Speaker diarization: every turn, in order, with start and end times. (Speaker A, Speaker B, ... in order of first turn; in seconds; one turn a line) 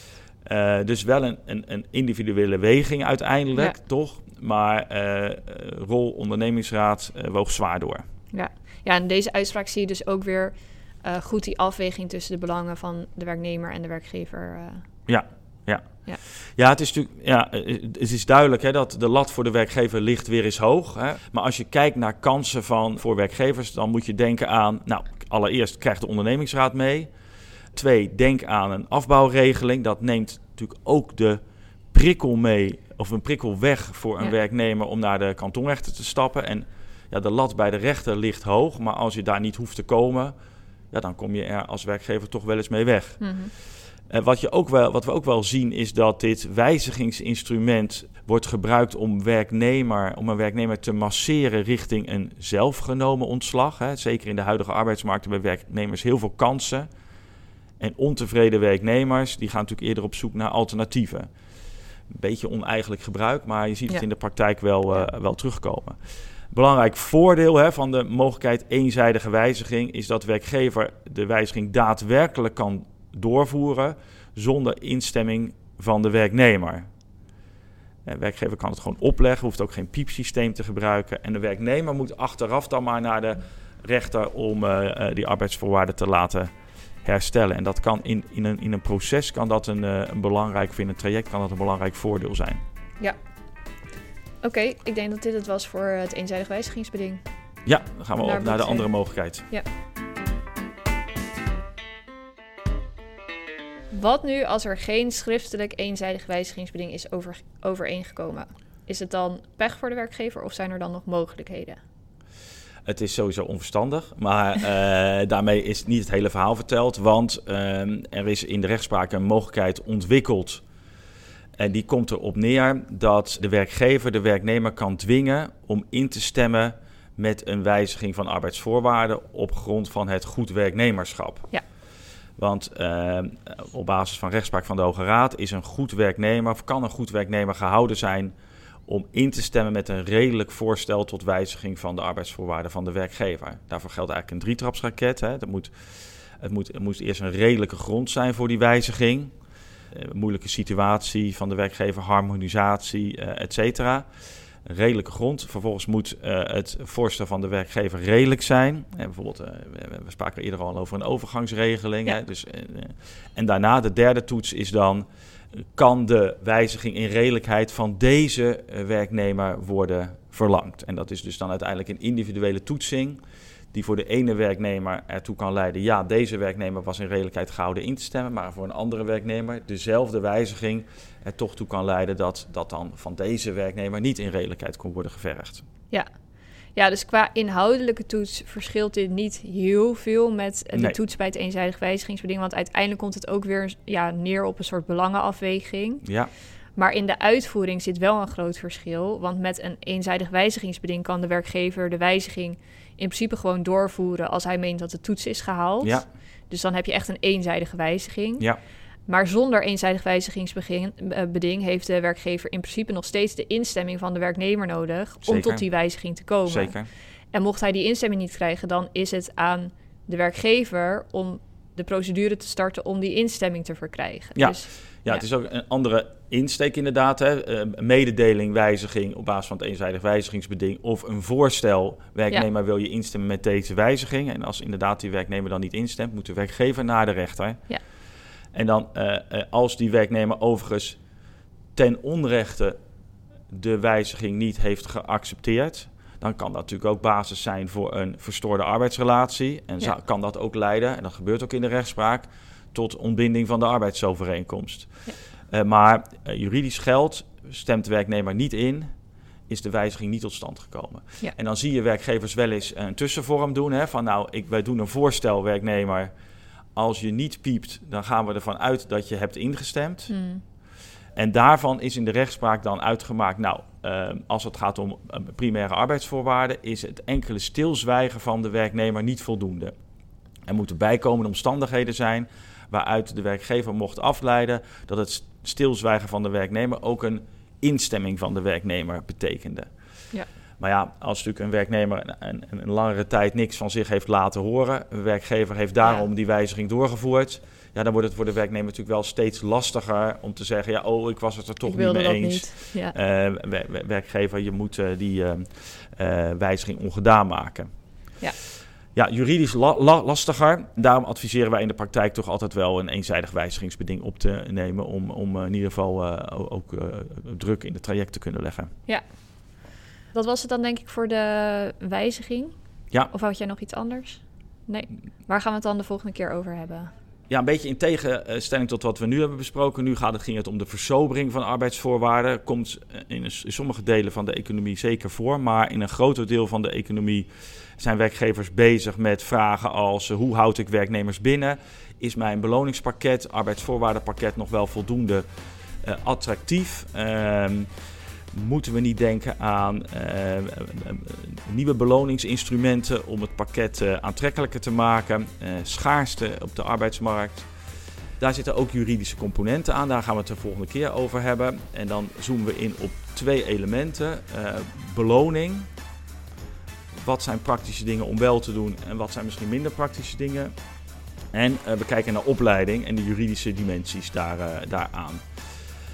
Speaker A: 0.4-8.0
Speaker B: 8.3-14.8
Speaker A: 15.1-27.1
Speaker A: 27.7-31.4
Speaker A: 31.9-40.3
Speaker A: 40.9-43.2
Speaker B: 43.2-43.5
Speaker A: 44.1-56.9
Speaker A: 57.8-61.3
Speaker A: 62.1-66.0
Speaker A: 66.5-76.9
Speaker A: 78.0-86.5
Speaker A: 87.0-92.6
Speaker B: 94.4-97.2
Speaker A: 97.7-99.5
Speaker B: 98.2-98.9
Speaker B: 103.9-111.8
Speaker A: 112.8-120.6
Speaker A: 121.6-131.5
Speaker A: 132.4-138.3
Speaker A: 138.9-149.3
Speaker A: 149.9-154.1
Speaker A: 154.6-165.1
Speaker A: 165.6-173.2
Speaker A: 173.7-185.7
Speaker B: 186.8-196.0
Speaker A: 196.0-196.3
Speaker B: 196.8-208.4
Speaker B: 209.1-216.7
Speaker A: 215.2-215.6
Speaker A: 216.4-216.9
Speaker B: 217.3-225.2
Speaker A: 224.3-237.6
Speaker A: 238.5-241.0
Speaker A: 241.7-242.8
Speaker A: 243.5-255.0
Speaker A: 255.5-258.9
Speaker A: 259.5-266.1
Speaker A: 266.8-270.1
Speaker B: 270.1-270.4
Speaker A: 271.1-279.8
Speaker A: 280.5-289.7
Speaker A: 290.6-307.7
Speaker B: 301.6-302.9
Speaker A: 308.9-318.7
Speaker B: 320.1-322.5
Speaker B: 323.1-326.9
Speaker A: 327.3-345.2
Speaker A: 345.8-347.7
Speaker A: 348.3-357.5
Speaker A: 358.2-365.7
Speaker A: 366.9-370.5
Speaker A: 371.3-375.3